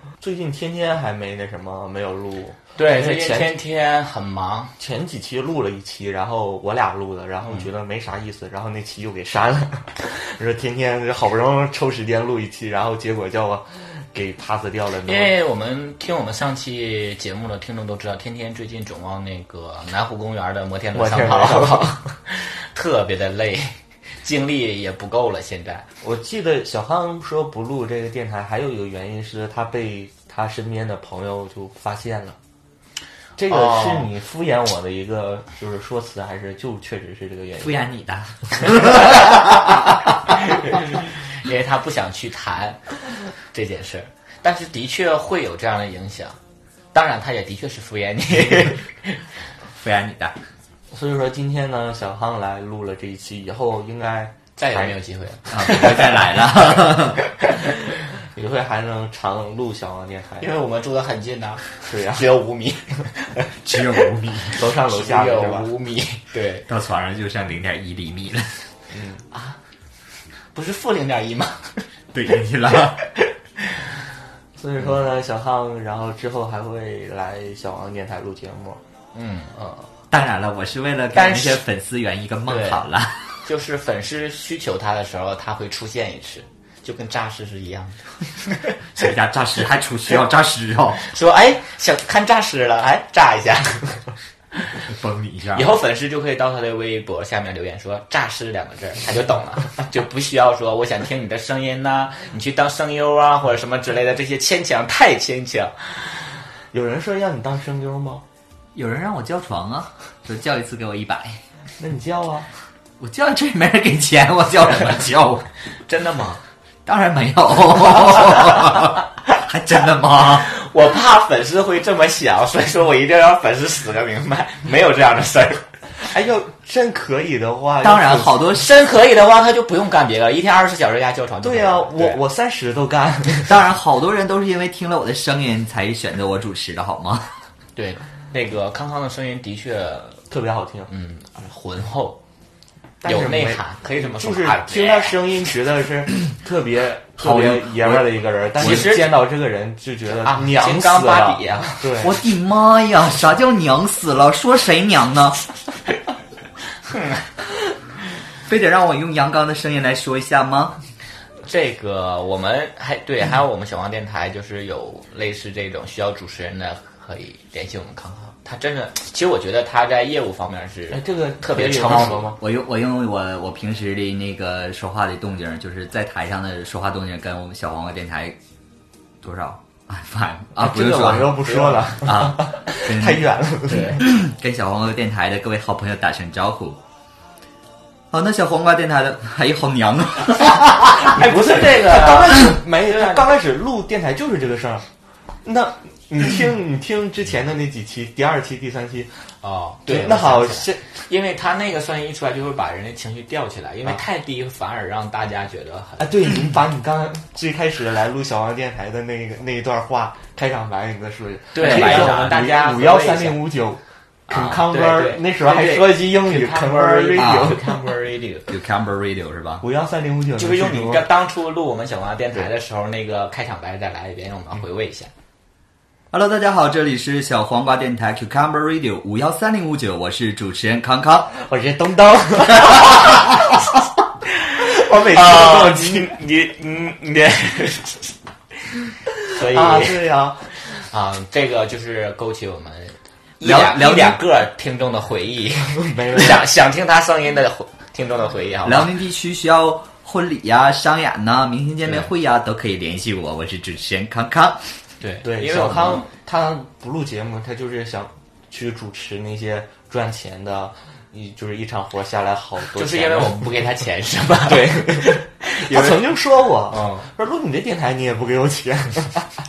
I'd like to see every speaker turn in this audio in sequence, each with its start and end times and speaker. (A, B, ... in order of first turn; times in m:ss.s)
0:00.2-0:03.6 A
0:02.8-0:04.7 B
0:04.8-0:15.3 A
0:15.0-0:25.9 B
0:20.9-0:22.1 A
0:26.0-0:32.4 A
0:33.4-0:37.8 A
0:33.5-0:34.1 B
0:37.6-0:39.8 C
0:38.8-0:39.6 B
0:40.5-0:42.8 B
0:43.5-0:46.4 B
0:46.9-0:49.2 B
0:49.7-0:50.4 C
0:50.9-0:54.9 A
0:54.6-0:56.4 B
0:55.5-0:57.2 C
0:57.4-0:57.7 B
0:58.1-1:00.5 A
1:00.4-1:03.5 B
1:01.9-1:02.2 A
1:03.6-1:04.6 C
1:04.6-1:05.7 A
1:04.9-1:06.6 B
1:06.7-1:08.7 C
1:08.9-1:09.2 A
1:09.3-1:09.6 B
1:10.5-1:11.8 B
1:12.1-1:13.0 C
1:14.6-1:18.8 A
1:19.1-1:19.5 B
1:19.6-1:19.8 A
1:20.1-1:23.4 C
1:21.1-1:21.6 B
1:22.5-1:22.8 B
1:23.4-1:28.8 B
1:29.0-1:31.0 C
1:31.1-1:34.0 B
1:34.8-1:35.7 C
1:35.5-1:46.2 B
1:46.7-1:48.2 A
1:48.7-1:51.4 C
1:51.8-1:52.5 A
1:53.0-1:55.5 C
1:55.9-1:56.4 B
1:56.9-2:00.5 C
2:00.4-2:05.7 B
2:06.0-2:08.4 A
2:07.8-2:08.7 C
2:08.6-2:12.2 B
2:11.4-2:13.5 A
2:13.5-2:17.3 C
2:17.8-2:20.2 B
2:20.3-2:20.9 A
2:20.9-2:22.2 B
2:23.0-2:32.2 A
2:23.0-2:25.2 B
2:27.2-2:28.9 C
2:28.6-2:29.2 B
2:30.2-2:31.9 B
2:32.0-2:35.4 C
2:36.9-2:37.2 B
2:38.4-2:40.8 C
2:41.4-2:52.4 B
2:50.9-2:52.4 A
2:52.0-2:58.4 C
2:59.2-3:03.3 C
3:00.6-3:04.1 A
3:01.5-3:01.9 B
3:03.7-3:04.0 B
3:03.9-3:06.8 C
3:08.1-3:10.9 C
3:10.8-3:13.3 B
3:11.2-3:14.8 A
3:15.4-3:19.1 A
3:19.4-3:26.1 B
3:19.9-3:20.9 A
3:26.0-3:37.8 A
3:31.5-3:33.4 B
3:31.6-3:32.3 C
3:34.3-3:38.5 B
3:37.2-3:37.6 C
3:38.5-3:39.6 C
3:39.6-3:41.1 A
3:40.4-3:45.1 B
3:46.1-3:51.3 C
3:51.4-3:53.4 A
3:54.6-3:58.1 B
3:54.6-3:56.2 A
3:59.3-4:00.0 B
3:59.4-4:00.6 A
4:00.6-4:08.9 B
4:03.4-4:04.2 C
4:05.8-4:06.4 A
4:08.6-4:14.7 C
4:15.0-4:16.1 B
4:15.2-4:23.5 A
4:22.7-4:26.0 B
4:24.5-4:29.3 A
4:26.7-4:27.1 B